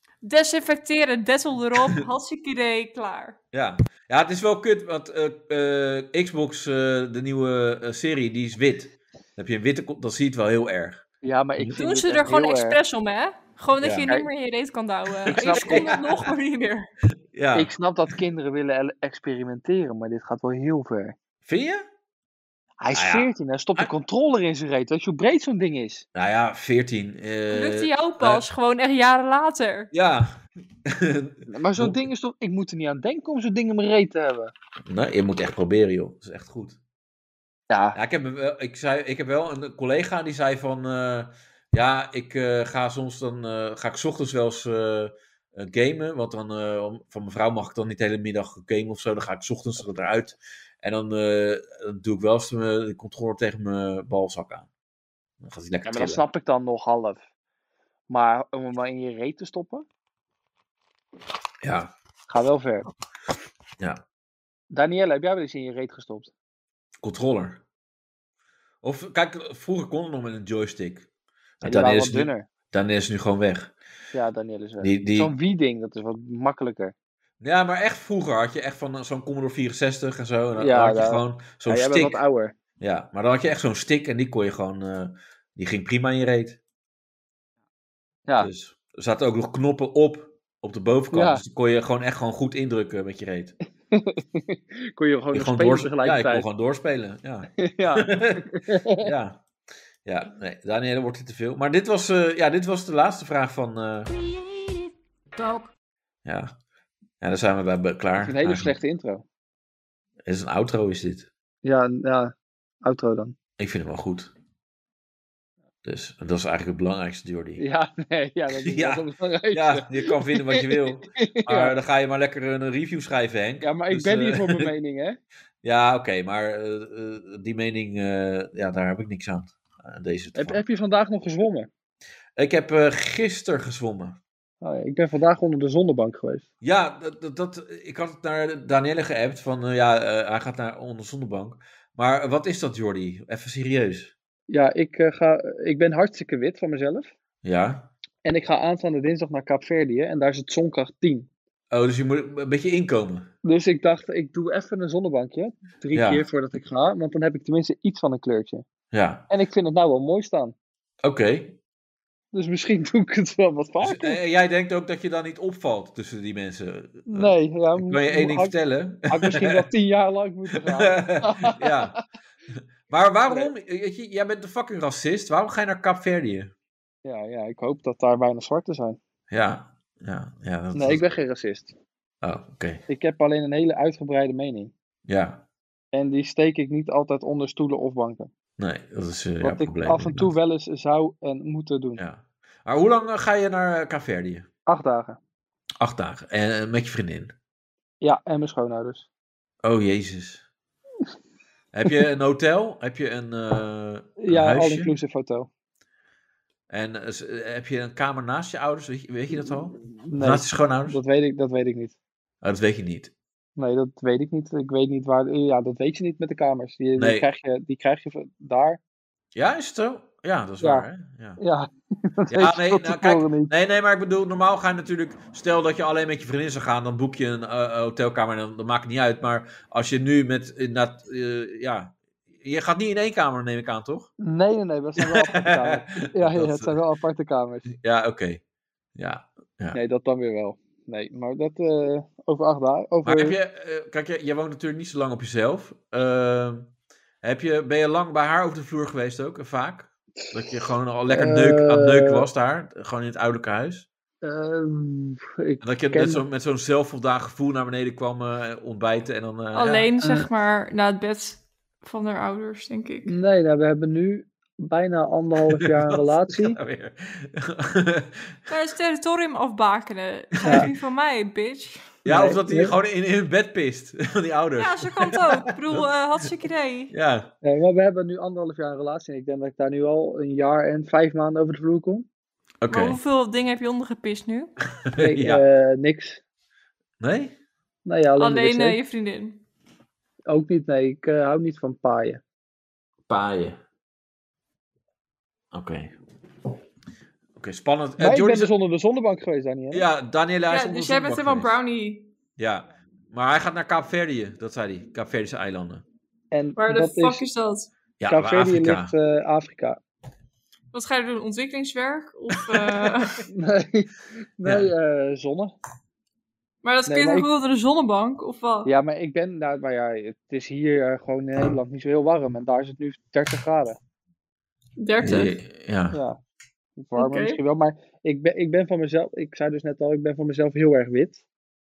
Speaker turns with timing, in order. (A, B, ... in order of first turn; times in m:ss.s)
0:00.2-0:03.4 A
0:03.5-0:11.0 B
0:11.2-0:12.8 C
0:11.8-0:16.9 A
0:13.8-0:14.1 B
0:15.3-0:16.0 B
0:15.3-0:15.9 C
0:17.3-0:17.7 B
0:17.5-0:21.2 C
0:21.4-0:21.8 B
0:22.8-0:26.0 C
0:22.9-0:23.9 B
0:26.1-0:28.4 B
0:27.5-0:29.9 A
0:29.9-0:30.3 B
0:30.8-0:32.0 B
0:31.5-0:34.5 C
0:34.9-0:36.8 B
0:37.7-0:38.0 C
0:37.9-0:54.7 B
0:55.4-0:56.2 B
0:55.8-0:57.2 C
0:58.1-0:59.8 C
1:01.6-1:01.9 B
1:02.3-1:02.9 C
1:04.7-1:06.3 C
1:07.0-1:07.6 B
1:08.8-1:11.0 B
1:11.6-1:13.7 B
1:11.6-1:12.5 C
1:14.1-1:16.9 C
1:14.8-1:15.3 B
1:17.4-1:22.2 B
1:20.6-1:22.5 C
1:22.8-1:26.6 B
1:28.4-1:33.5 B
1:31.1-1:31.4 C
1:33.9-1:36.5 C
1:35.3-1:38.5 B
1:37.6-1:39.1 C
1:39.0-1:39.4 B
1:40.0-1:44.1 B
1:46.2-1:46.5 B
1:47.2-1:48.7 B
1:48.2-1:49.2 C
1:50.2-1:51.3 B
1:51.6-1:53.4 C
1:53.6-1:54.3 B
1:55.8-1:57.6 B
1:57.6-2:01.7 C
1:58.5-2:04.7 B
2:03.6-2:05.2 C
2:05.6-2:10.6 B
2:10.3-2:11.7 C
2:12.4-2:14.2 B
2:14.6-2:16.4 C
2:16.6-2:24.1 B
2:24.5-2:27.1 C
2:27.4-2:27.9 B
2:28.2-2:31.3 C
2:31.7-2:33.3 B
2:33.4-2:38.6 C
2:35.9-2:36.2 B
2:38.9-2:39.2 B
2:39.3-2:40.5 C
2:41.0-2:41.6 B
2:42.3-2:44.2 C
2:43.8-2:49.6 B
2:47.1-2:51.9 C
2:50.5-2:52.0 B
2:52.9-2:56.5 B
2:53.3-2:53.5 C
2:57.0-2:59.0 C
2:59.3-3:01.1 B
3:00.7-3:01.7 C
3:02.2-3:02.8 B
3:02.9-3:04.7 C
3:05.1-3:05.4 B
3:05.9-3:08.3 C
3:08.6-3:10.3 B
3:09.4-3:12.0 C
3:12.0-3:14.5 B
3:14.7-3:15.2 C
3:15.8-3:17.3 B
3:18.0-3:19.1 C
3:19.6-3:20.4 B
3:21.7-3:24.9 B
3:24.2-3:25.5 C
3:26.7-3:31.0 B
3:30.0-3:32.0 C
3:32.4-3:33.1 B
3:33.6-3:38.8 C
3:37.0-3:37.2 B
3:39.3-3:41.4 B
3:40.6-3:40.8 C
3:41.4-3:43.5 C
3:42.3-3:54.1 B
3:54.2-3:57.7 C
3:55.0-3:56.7 B
3:57.7-3:58.4 B
3:59.0-3:59.8 B
3:59.7-4:03.4 C
4:03.0-4:06.7 B
4:07.2-4:13.9 B
4:10.3-4:12.2 C
4:14.2-4:16.2 C
4:15.6-4:19.9 B
4:19.5-4:23.1 A
4:20.0-4:20.3 C
4:23.0-4:26.6 C
4:25.5-4:28.3 B
4:28.5-4:31.9 A
4:30.4-4:30.7 B
4:32.0-4:35.2 B
4:32.0-4:32.7 C
4:34.6-4:36.9 A
4:36.9-4:37.3 B
4:37.4-4:42.0 C
4:42.6-4:43.0 B
4:42.7-4:44.5 A
4:44.8-4:45.4 B
4:45.0-4:46.2 C
4:47.0-4:47.3 B
4:47.8-4:48.8 C
4:48.2-4:49.4 A
4:50.3-4:52.2 C
4:53.1-4:53.6 B
4:55.5-4:55.9 B
4:57.4-4:58.5 B
4:58.0-4:59.8 C
4:59.7-5:01.5 B
5:00.5-5:02.1 A
5:02.4-5:05.8 B
5:06.3-5:07.2 C
5:06.6-5:07.7 A
5:08.0-5:08.9 B
5:08.0-5:09.8 C
5:10.7-5:13.2 A
5:13.3-5:15.5 C
5:14.4-5:14.7 B
5:16.6-5:18.7 A
5:16.9-5:17.3 C
5:18.6-5:23.8 C
5:24.8-5:25.3 A
5:25.0-5:26.0 B
5:25.9-5:26.2 C
5:26.8-5:31.2 C
5:27.0-5:27.4 A